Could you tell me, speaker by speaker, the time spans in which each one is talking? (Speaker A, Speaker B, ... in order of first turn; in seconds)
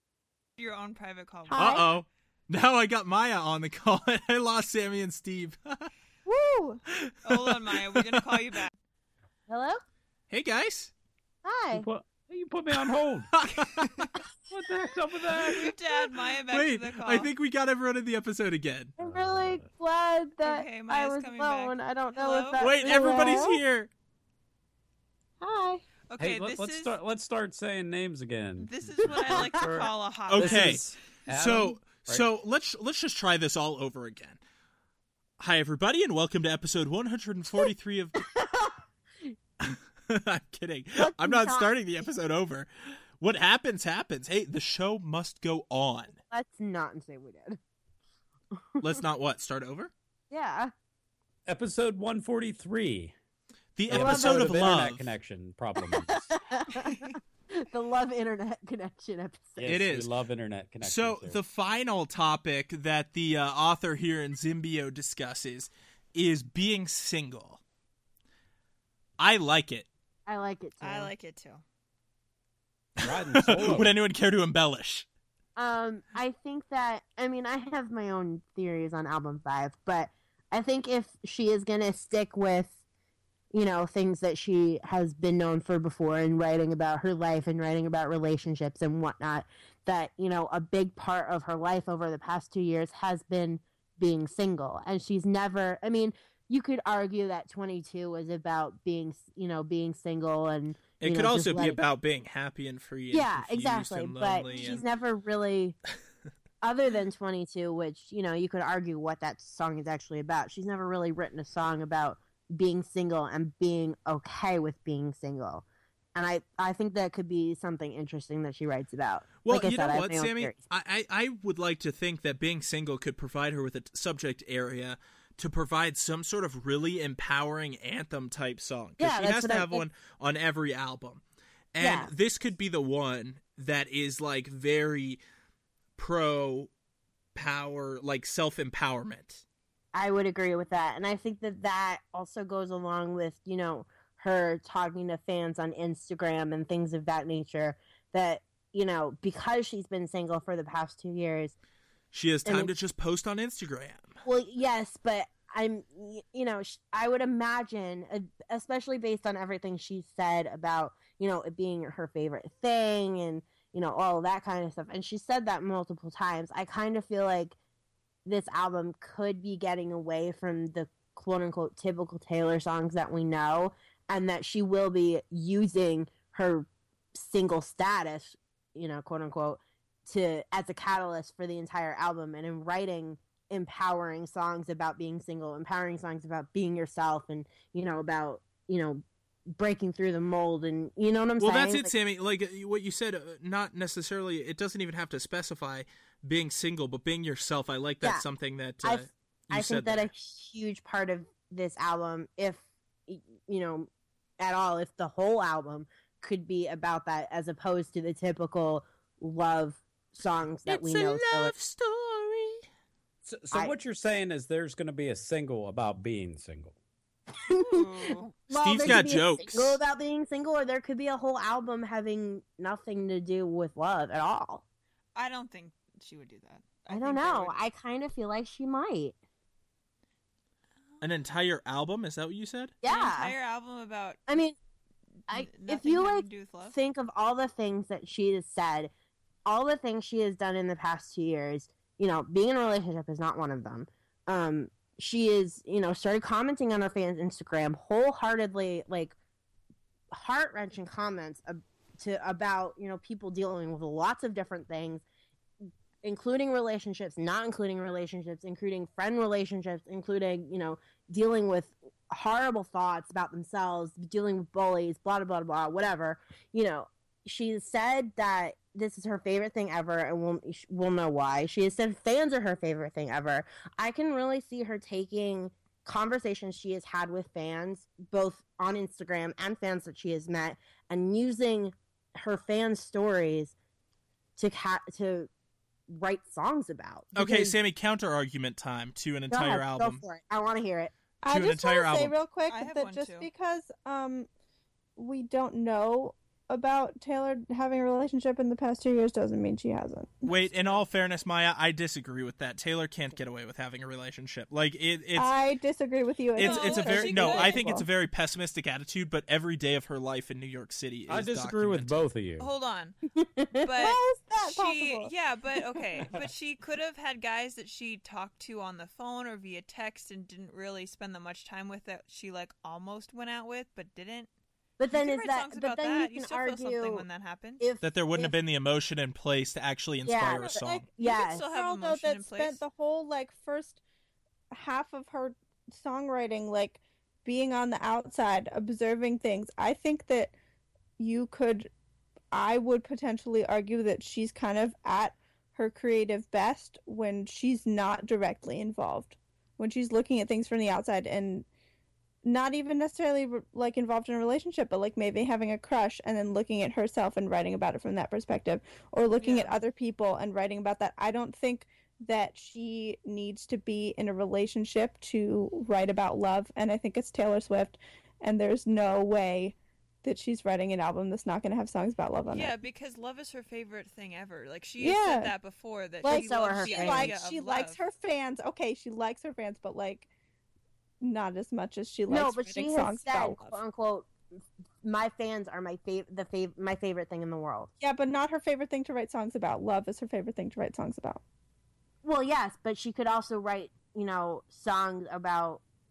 Speaker A: 0.6-1.8, 7.2-8.7, 13.8-14.1, 15.4-17.3, 20.4-22.8, 26.1-26.9, 28.6-31.0, 56.9-57.1, 70.8-71.6, 104.4-104.9, 217.6-218.3, 225.1-227.6, 232.8-234.2, 235.3-236.8, 292.5-293.3, 306.4-307.7, 312.4-312.9, 313.6-324.3, 324.9-327.6, 331.0-332.6, 359.2-359.6, 372.3-377.9
Speaker B: 1.5-1.8, 9.5-9.8, 11.4-11.9, 19.0-23.6, 25.4-25.8, 38.2-39.3, 41.0-42.1, 46.3-47.6, 48.6-49.0, 50.3-50.7, 53.9-54.8, 55.9-59.8, 70.2-71.1, 75.6-82.7, 83.5-101.8, 103.1-105.8, 106.6-115.6, 116.1-120.6, 129.0-129.8, 131.8-132.1, 139.9-151.6, 152.4-152.7, 154.2-167.6, 168.2-191.9, 198.8-203.9, 204.4-211.5, 217.4-224.6, 226.9-229.1, 232.8-233.3, 234.3-234.6, 235.3-238.9, 239.4-249.1, 250.1-255.0, 256.0-283.5, 284.4-285.3, 285.9-287.6, 289.3-290.9, 313.2-313.8, 324.8-327.1, 327.6-328.3, 330.1-331.4, 376.1-377.1, 382.1-384.1, 384.8-387.7, 392.0-395.6
Speaker C: 1.6-5.9, 6.9-8.6, 10.3-10.9, 13.3-14.1, 15.3-15.6, 16.5-18.9, 22.6-23.9, 30.3-34.4, 35.4-38.2, 39.6-46.2, 48.8-49.9, 53.8-55.1, 59.7-60.1, 60.8-67.6, 69.2-69.9, 73.0-75.1, 101.0-104.8, 119.4-131.2, 131.7-135.2, 136.0-136.7, 137.3-139.4, 152.1-154.2, 191.4-200.1, 210.7-212.6, 218.5-219.8, 231.0-232.8, 287.1-290.0, 291.3-292.1, 300.3-305.3, 306.4-312.0, 327.8-330.9
Speaker D: 6.2-6.8, 291.2-294.3, 295.0-300.5, 305.2-307.9, 313.8-315.1, 330.5-333.8, 334.5-340.3, 341.0-341.7, 342.3-351.4, 352.2-372.6, 374.8-375.3, 376.0-380.1, 381.0-383.6, 387.8-391.2
Speaker E: 11.7-13.3, 14.5-15.8, 19.0-19.7, 26.2-32.2, 51.5-53.1, 53.9-56.3, 59.6-61.4, 73.0-73.9, 213.2-216.7, 311.1-312.5